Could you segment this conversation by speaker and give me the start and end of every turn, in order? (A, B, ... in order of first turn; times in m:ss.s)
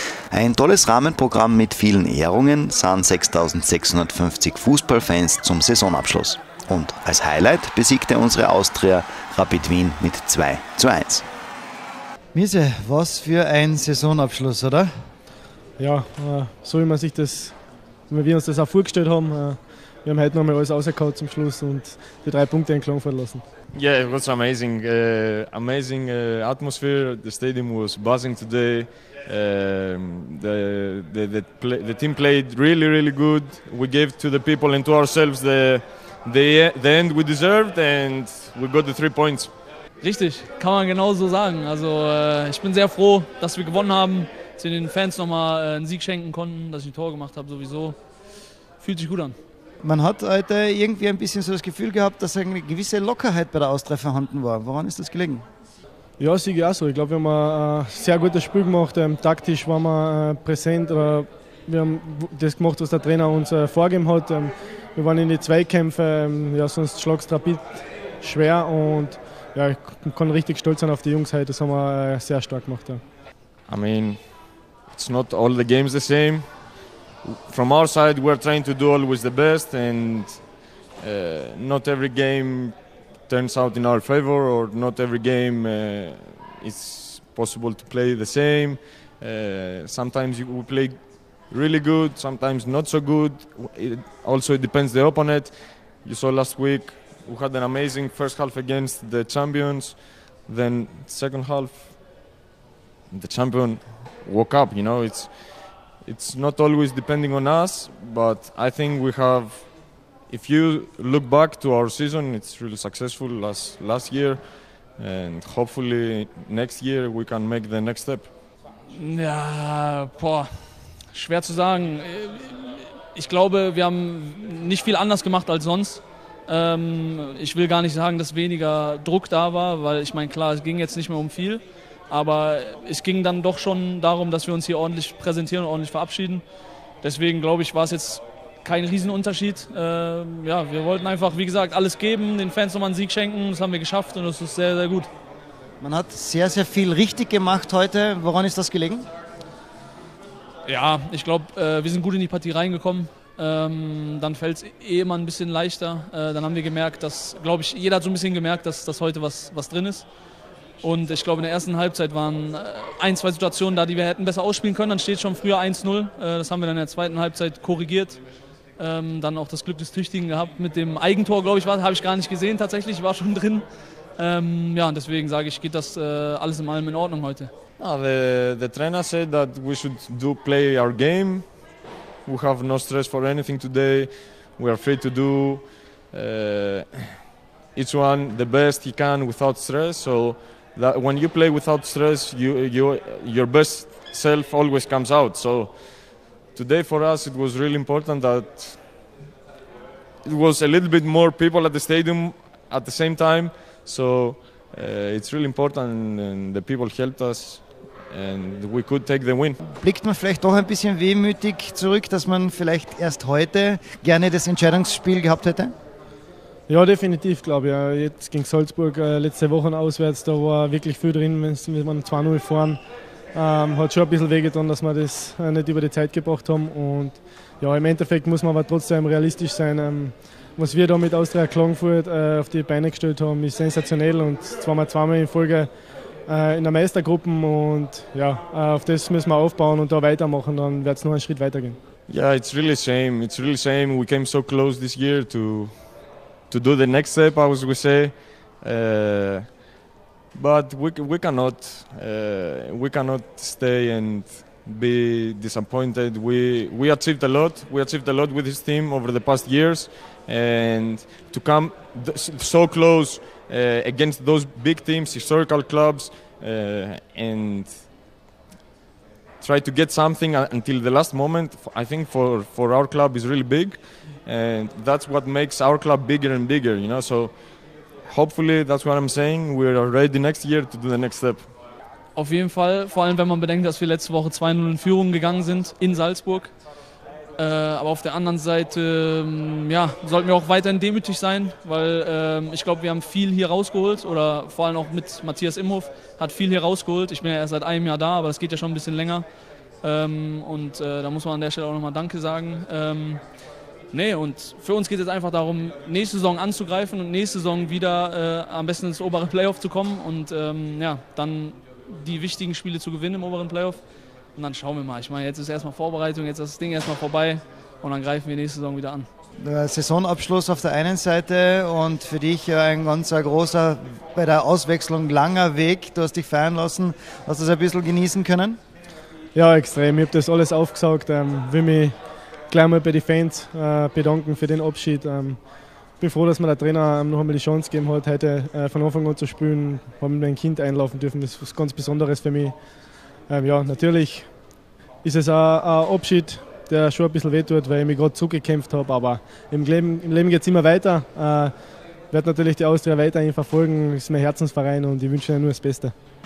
0:00.3-0:11.2 A
0:12.3-0:14.9 B
0:15.8-0:17.6 C
0:18.1-0:23.4 C
0:23.7-0:39.5 D
0:40.0-0:48.0 E
0:48.8-0:49.4 E
0:49.8-0:55.4 B
0:56.2-1:13.0 C
1:13.7-1:42.0 D
1:43.1-1:58.3 D
1:58.9-2:00.5 E
2:01.1-2:16.4 E
2:17.0-2:25.1 E
2:25.8-2:29.1 B
2:30.6-2:40.1 E
2:40.8-2:48.2 E
2:48.8-2:53.6 E
2:54.2-2:57.5 E
2:57.8-3:01.7 D
3:02.2-3:07.1 D
3:07.7-3:19.1 D
3:20.2-3:29.6 D
3:29.7-3:35.7 B
3:36.7-3:42.8 C
3:43.3-3:55.7 C
3:56.2-4:01.8 C
4:02.1-4:09.6 D
4:10.3-4:27.9 D
4:29.4-4:41.5 D
4:42.1-4:46.5 E
4:47.4-4:59.2 E
4:59.8-5:03.2 E
5:03.9-5:13.8 E
5:14.3-5:19.1 E
5:19.4-5:28.6 B
5:29.3-5:31.9 C
5:32.5-5:35.4 C
5:36.0-5:42.5 C
5:43.3-5:44.3 C
5:45.0-5:51.5 C
5:52.1-5:55.9 C